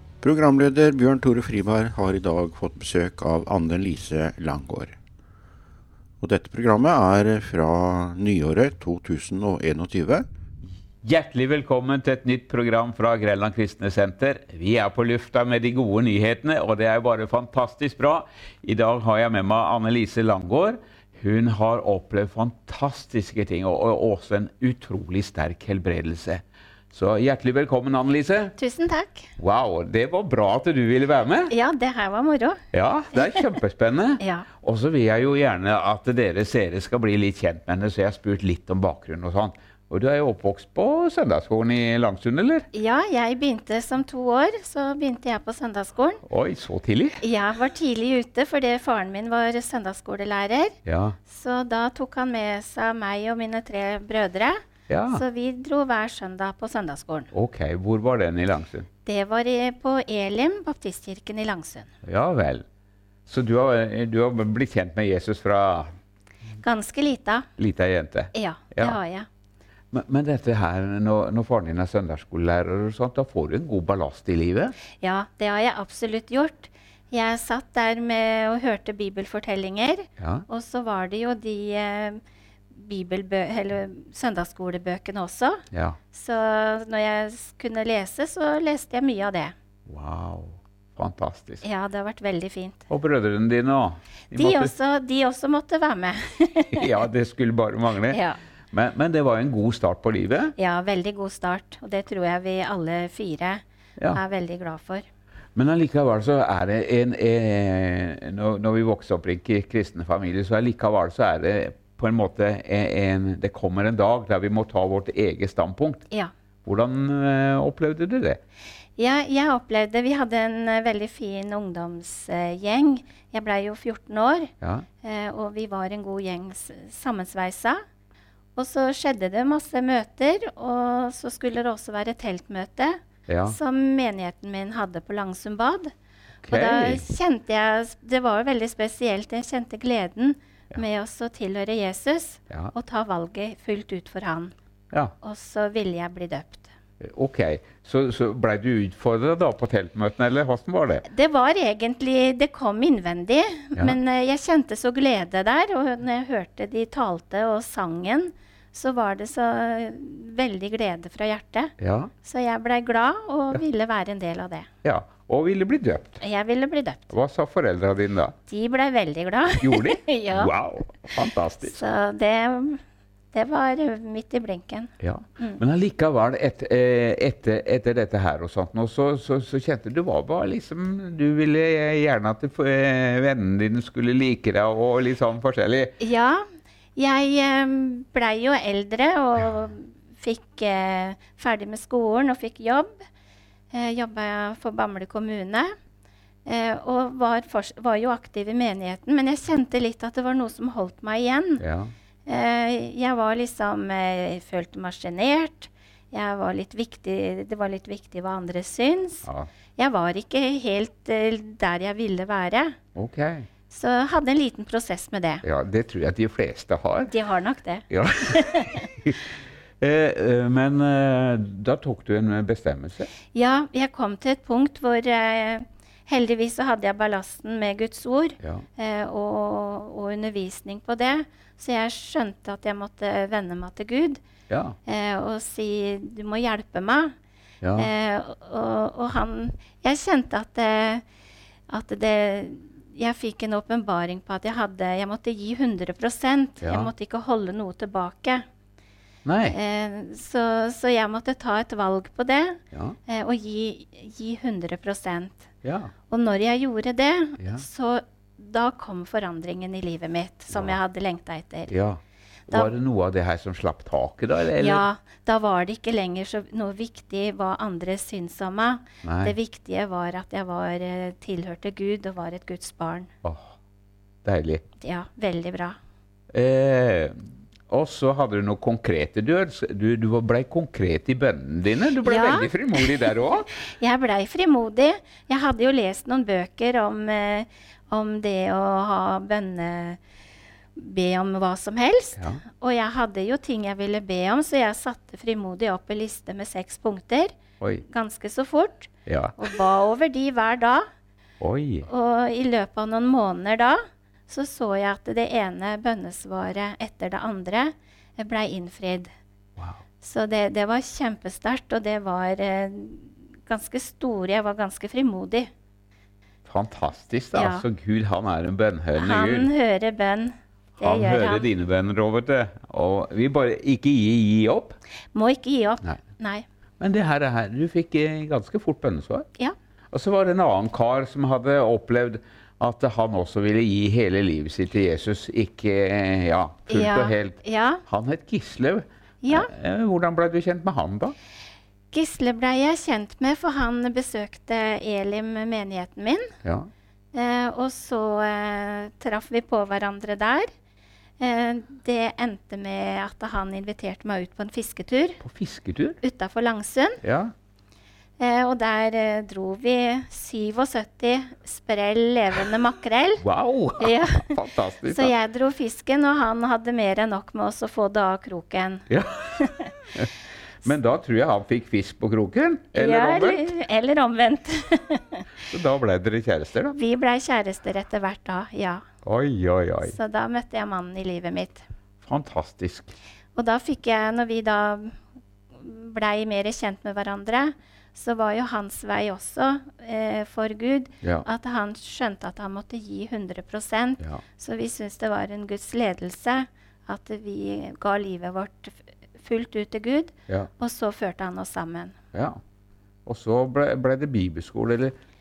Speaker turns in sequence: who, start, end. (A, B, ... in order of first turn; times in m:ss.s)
0:00.2-0:04.9 A
0:06.2-0:10.2 A
0:11.0-0:28.6 B
0:28.6-0:29.3 C
0:29.4-0:31.5 B
0:31.5-0:32.6 C
0:32.7-0:42.7 B
0:33.1-0:33.5 C
0:34.2-0:34.5 C
0:42.7-0:46.2 C
0:46.2-0:47.2 B
0:47.2-0:57.3 C
0:50.8-0:51.2 B
0:54.9-0:55.2 B
0:57.3-0:58.9 B
0:59.0-1:01.9 C
1:02.0-1:02.6 B
1:03.3-1:05.9 B
1:06.6-1:07.5 C
1:07.6-1:09.0 B
1:08.3-1:09.3 C
1:09.9-1:14.8 B
1:15.0-1:29.5 C
1:20.2-1:20.4 B
1:25.7-1:26.0 B
1:29.9-1:31.6 B
1:31.6-1:32.9 C
1:32.9-1:34.7 B
1:34.3-1:37.0 C
1:36.7-1:38.2 B
1:38.1-1:38.4 C
1:38.7-1:40.5 B
1:40.6-1:45.0 C
1:45.5-1:56.0 B
1:56.6-1:58.4 B
1:59.0-2:07.8 C
2:04.6-2:04.8 B
2:08.6-2:15.9 C
2:13.3-2:13.6 B
2:16.4-2:17.0 B
2:16.5-2:24.5 C
2:25.2-2:26.7 C
2:27.0-2:31.0 B
2:31.0-2:44.7 C
2:41.8-2:42.1 B
2:44.8-2:46.2 B
2:46.2-2:47.1 C
2:47.1-2:48.3 B
2:48.5-2:50.5 C
2:49.6-2:51.8 B
2:51.6-2:52.8 C
2:53.3-2:55.6 C
2:55.0-3:05.9 B
3:06.0-3:06.4 C
3:07.0-3:13.0 C
3:13.7-3:15.7 C
3:16.4-3:21.6 C
3:21.6-3:21.9 B
3:22.2-3:32.8 C
3:32.9-3:33.5 B
3:33.7-3:35.4 C
3:35.4-3:37.1 B
3:37.1-3:38.9 C
3:37.9-3:39.2 B
3:39.8-3:43.1 B
3:43.3-3:54.2 C
3:48.4-3:48.6 B
3:54.5-3:54.8 B
3:54.8-3:57.1 C
3:57.6-3:57.9 B
3:57.8-4:01.0 C
4:01.7-4:08.4 C
4:06.6-4:06.9 B
4:09.2-4:09.6 B
4:09.5-4:15.5 C
4:12.7-4:13.0 B
4:15.6-4:15.9 B
4:16.1-4:21.7 C
4:21.7-4:24.8 B
4:24.6-4:33.1 C
4:29.0-4:29.3 B
4:33.2-4:33.5 B
4:34.2-4:34.6 B
4:34.8-4:35.8 C
4:36.3-4:43.5 B
4:42.0-4:50.0 C
4:50.8-5:00.8 C
4:52.2-4:52.4 B
4:59.0-4:59.4 B
5:01.4-5:01.9 B
5:01.8-5:09.1 C
5:10.0-5:15.5 C
5:16.4-5:19.5 B
5:17.3-5:17.6 C
5:19.0-5:21.5 C
5:20.8-5:24.8 B
5:25.1-5:26.4 C
5:26.8-5:29.3 B
5:29.9-5:41.1 B
5:36.7-5:37.8 C
5:39.2-5:39.5 C
5:41.9-5:46.3 C
5:46.4-5:46.7 B
5:47.1-5:50.5 C
5:51.2-5:55.2 C
5:55.2-5:56.0 B
5:56.0-5:57.0 C
5:57.0-5:57.3 B
5:58.2-6:03.2 C
6:03.2-6:05.1 B
6:03.8-6:09.7 C
6:08.9-6:10.1 B
6:10.6-6:13.5 B
6:12.7-6:15.3 C
6:15.5-6:16.8 B
6:16.7-6:18.8 C
6:19.0-6:20.0 B
6:19.8-6:21.6 C
6:22.0-6:22.9 B
6:23.3-6:25.0 C
6:25.5-6:42.0 C
6:42.1-6:42.4 B
6:43.0-6:44.9 B